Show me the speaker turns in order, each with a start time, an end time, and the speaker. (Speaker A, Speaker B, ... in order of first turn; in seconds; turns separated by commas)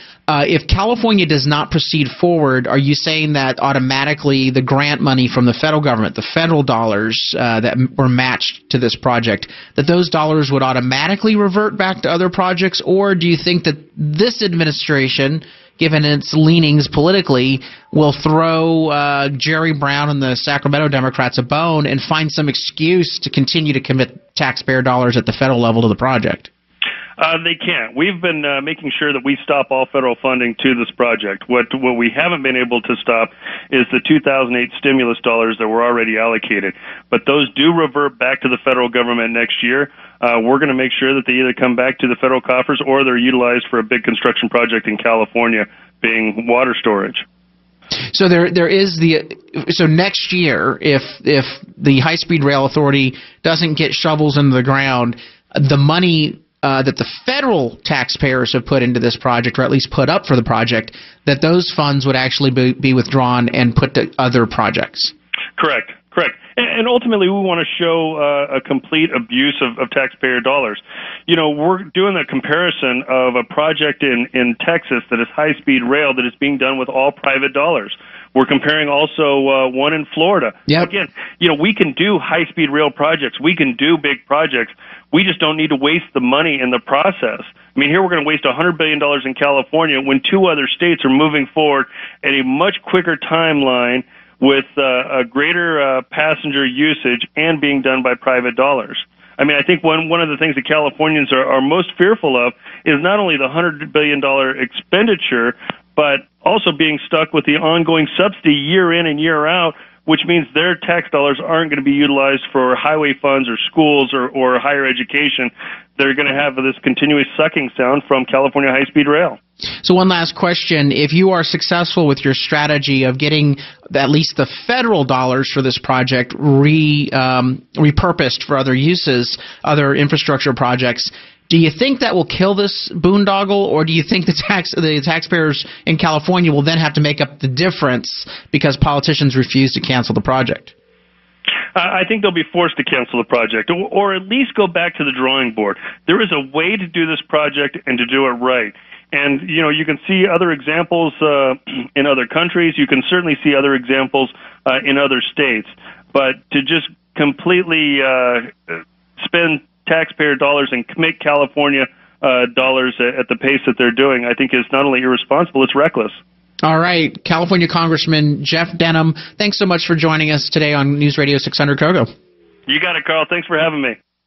Speaker A: 0.3-26.5, Speaker B: 27.2-47.2, Speaker A: 48.1-65.1, Speaker B: 65.6-119.4, Speaker A: 80.7-80.9, Speaker A: 119.8-140.7, Speaker B: 141.7-166.2, Speaker A: 166.6-172.1, Speaker B: 172.7-174.0